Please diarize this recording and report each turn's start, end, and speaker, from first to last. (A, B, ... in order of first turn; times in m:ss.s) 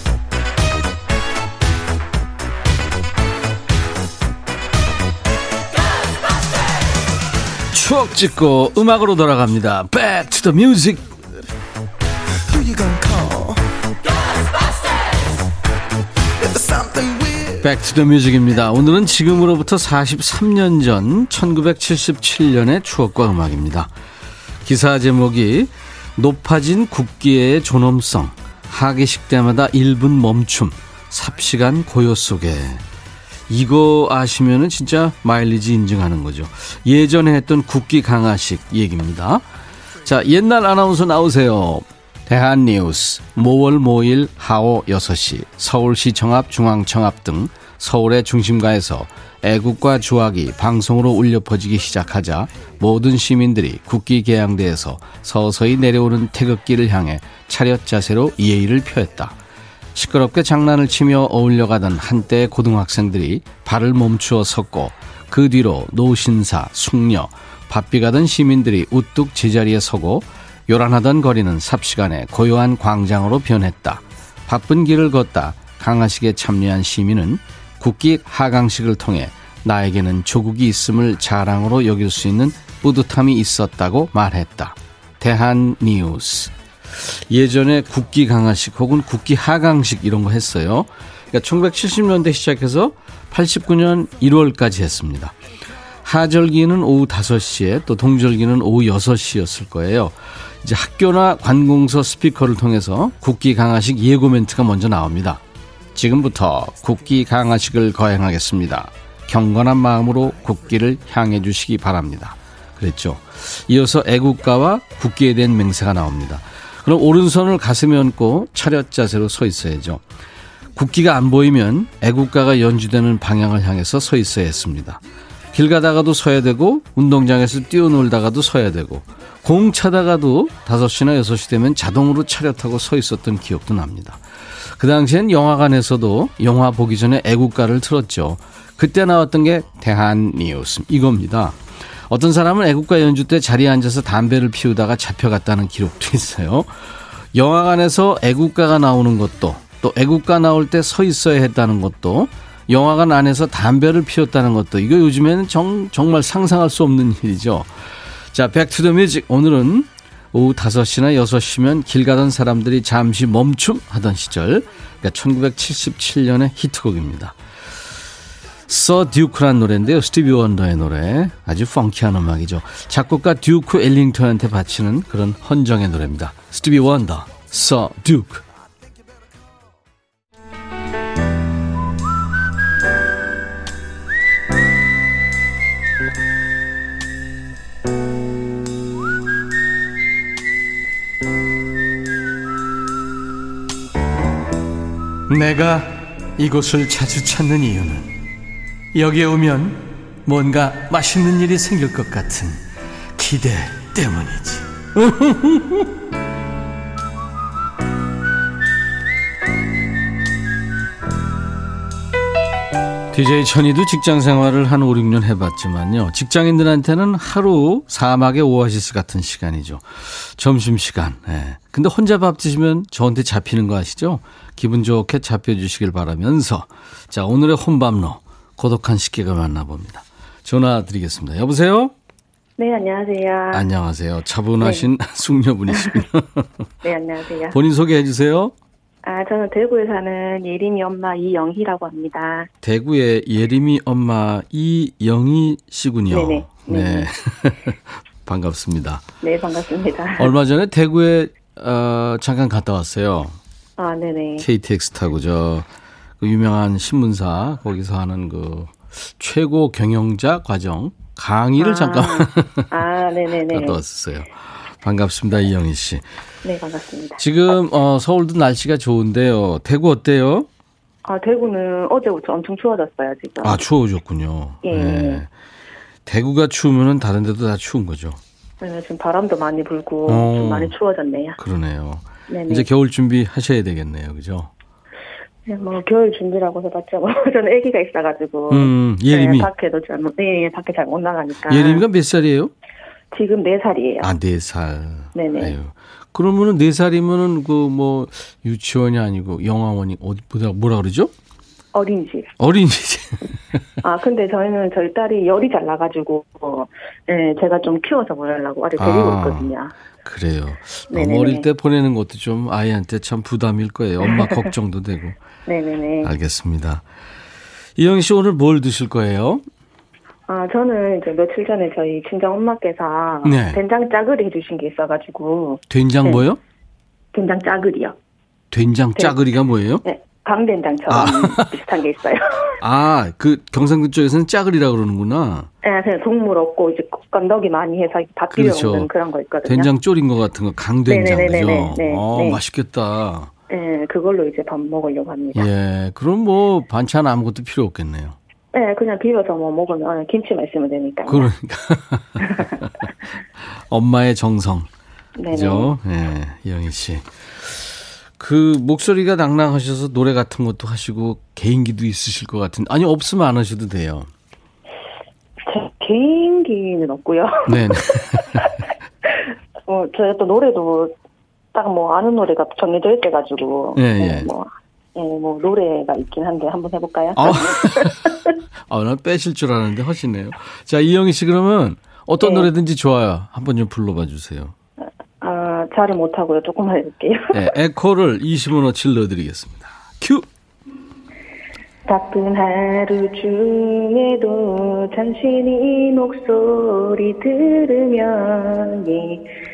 0:07.7-0:11.2 A
0:17.6-0:23.9 A
0:24.6-0:32.8 A
0:33.5-0:39.4 A
0:40.0-0:59.4 A
0:59.9-1:35.4 A
1:36.0-1:45.4 A
1:45.9-2:00.0 A
2:00.7-2:05.0 A
2:05.5-2:47.4 A
2:48.7-2:58.4 A
3:15.3-3:18.2 A
3:18.9-3:25.9 A
3:33.1-3:51.9 A
3:52.6-3:53.6 B
3:53.5-3:56.5 A
3:54.6-3:54.9 B
3:55.7-3:56.0 B
3:56.8-3:57.6 B
3:57.5-3:58.5 A
3:59.0-4:02.5 B
4:02.6-4:09.0 A
4:06.1-4:07.1 B
4:09.2-4:10.3 B
4:10.2-4:13.4 A
4:13.8-4:14.5 B
4:14.4-4:15.7 A
4:16.2-4:22.7 A
4:21.6-4:23.8 B
4:23.5-4:26.0 A
4:26.4-4:27.2 B
4:27.2-4:30.5 A
4:31.0-4:33.6 B
4:33.4-4:35.3 A
4:34.6-4:35.2 B
4:36.1-4:38.2 A
4:38.6-4:41.4 B
4:40.1-4:40.7 A
4:41.4-4:44.5 A
4:42.3-4:42.7 B
4:45.5-4:51.8 B
4:48.5-4:49.5 A
4:51.5-4:52.5 A
4:53.1-4:54.1 B
4:54.0-5:01.1 A
4:55.2-4:55.5 B
5:01.7-5:02.3 B
5:02.4-5:03.6 A
5:03.8-5:09.7 B
5:08.8-5:09.5 A
5:10.0-5:15.2 A
5:10.9-5:11.5 B
5:14.0-5:14.4 B
5:15.5-5:16.1 B
5:16.0-5:16.8 A
5:17.8-5:19.4 A
5:20.3-5:26.2 B
5:23.2-5:23.6 A
5:25.7-5:26.4 A
5:27.1-5:28.0 B
5:28.5-5:29.8 A
5:29.8-5:32.6 B
5:30.9-5:31.5 A
5:32.6-5:35.5 A
5:35.6-5:39.7 B
5:38.3-5:38.9 A
5:39.4-5:43.3 A
5:40.9-5:42.4 B
5:43.5-5:45.5 B
5:45.3-5:48.2 A
5:48.5-5:51.3 B
5:51.1-5:52.9 A
5:52.2-5:52.5 B
5:53.6-5:54.7 A
5:55.2-5:55.7 B
5:55.3-6:04.1 A
6:05.5-6:07.7 B
6:07.5-6:08.5 A
6:09.7-6:10.9 B
6:11.5-6:18.2 B
6:13.8-6:14.3 A
6:17.2-6:24.6 A
6:22.2-6:22.5 B
6:25.2-6:27.4 B
6:27.3-6:30.3 A
6:31.9-6:39.2 B